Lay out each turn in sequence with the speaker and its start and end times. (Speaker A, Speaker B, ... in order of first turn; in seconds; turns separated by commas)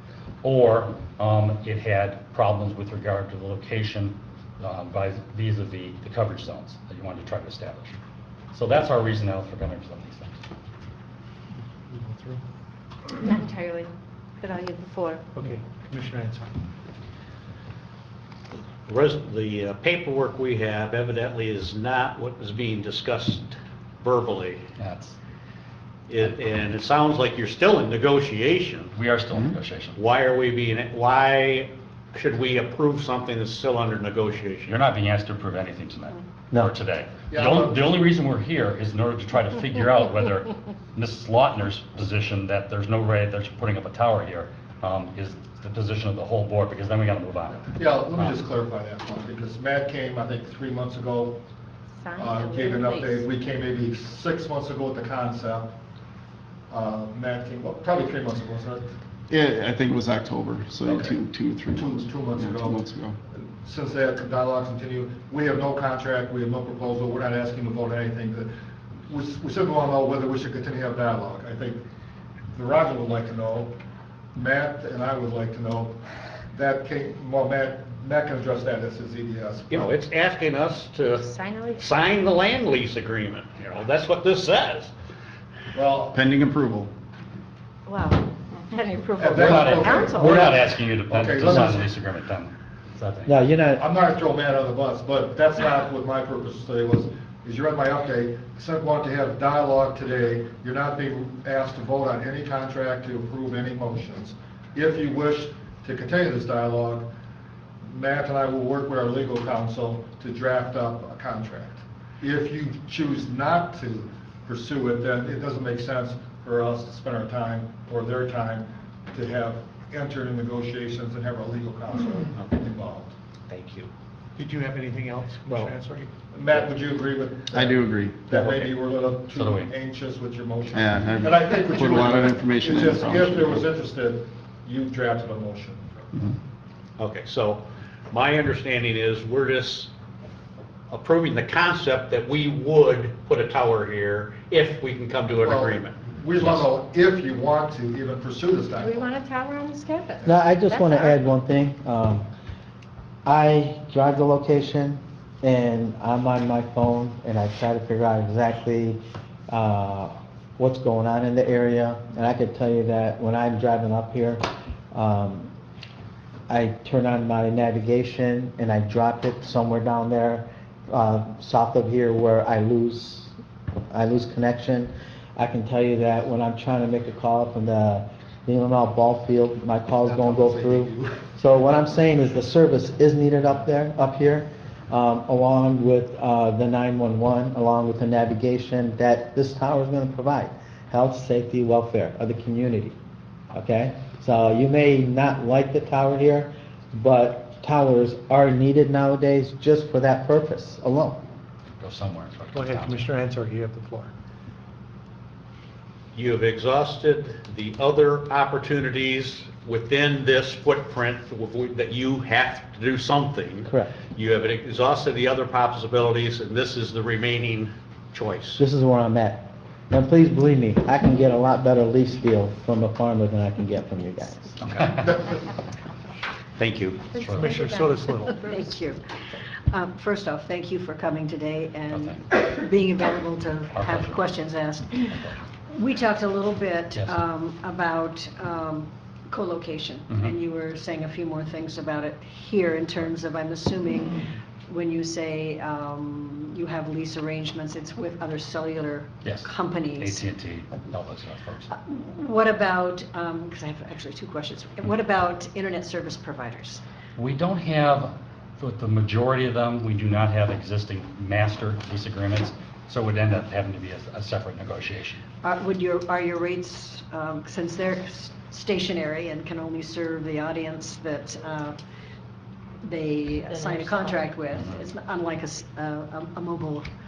Speaker A: 0.4-8.0, Speaker A: 8.5-10.4, Speaker B: 11.9-12.4, Speaker C: 13.3-13.7, Speaker B: 15.3-16.5, Speaker D: 18.9-24.6, Speaker A: 24.8-25.2, Speaker D: 26.1-28.9, Speaker A: 28.9-30.0, Speaker D: 29.9-34.8, Speaker A: 34.7-47.6, Speaker E: 37.3-38.0, Speaker E: 47.7-51.4, Speaker C: 52.0-53.2, Speaker E: 52.2-55.7, Speaker E: 56.7-58.9, Speaker F: 59.3-63.2, Speaker E: 60.8-61.2, Speaker E: 61.7-62.8, Speaker E: 63.4-68.5, Speaker E: 69.1-71.8, Speaker E: 72.5-73.7, Speaker E: 74.3-76.0, Speaker E: 76.5-79.9, Speaker D: 79.7-84.9, Speaker C: 81.2-81.8, Speaker E: 85.7-86.2, Speaker F: 86.1-86.9, Speaker G: 87.9-90.3, Speaker E: 89.2-91.8, Speaker A: 89.3-93.3, Speaker H: 93.2-93.8, Speaker E: 93.8-107.1, Speaker E: 107.8-123.1, Speaker D: 123.5-123.9, Speaker B: 124.3-126.1, Speaker E: 126.3-136.1, Speaker F: 127.5-128.7, Speaker A: 129.3-129.7, Speaker F: 130.7-133.7, Speaker D: 137.0-139.9, Speaker D: 140.9-146.6, Speaker E: 145.4-149.1, Speaker C: 148.8-151.0, Speaker H: 150.2-152.3, Speaker H: 153.2-165.5, Speaker H: 166.5-173.3, Speaker H: 173.9-192.9, Speaker E: 180.0-181.2, Speaker H: 193.5-201.2, Speaker A: 201.8-203.1, Speaker B: 202.5-204.1, Speaker D: 206.1-218.6, Speaker H: 213.7-214.0, Speaker H: 218.6-224.6, Speaker A: 224.7-225.1, Speaker D: 226.6-227.1, Speaker A: 227.1-227.5, Speaker B: 227.2-228.4, Speaker G: 228.3-229.1, Speaker G: 229.7-250.3, Speaker A: 231.9-232.2, Speaker A: 233.7-234.2, Speaker A: 235.1-235.4, Speaker A: 236.9-237.2, Speaker A: 249.2-251.7, Speaker G: 251.7-256.8, Speaker A: 257.2-265.2, Speaker G: 265.4-271.8, Speaker G: 272.8-276.9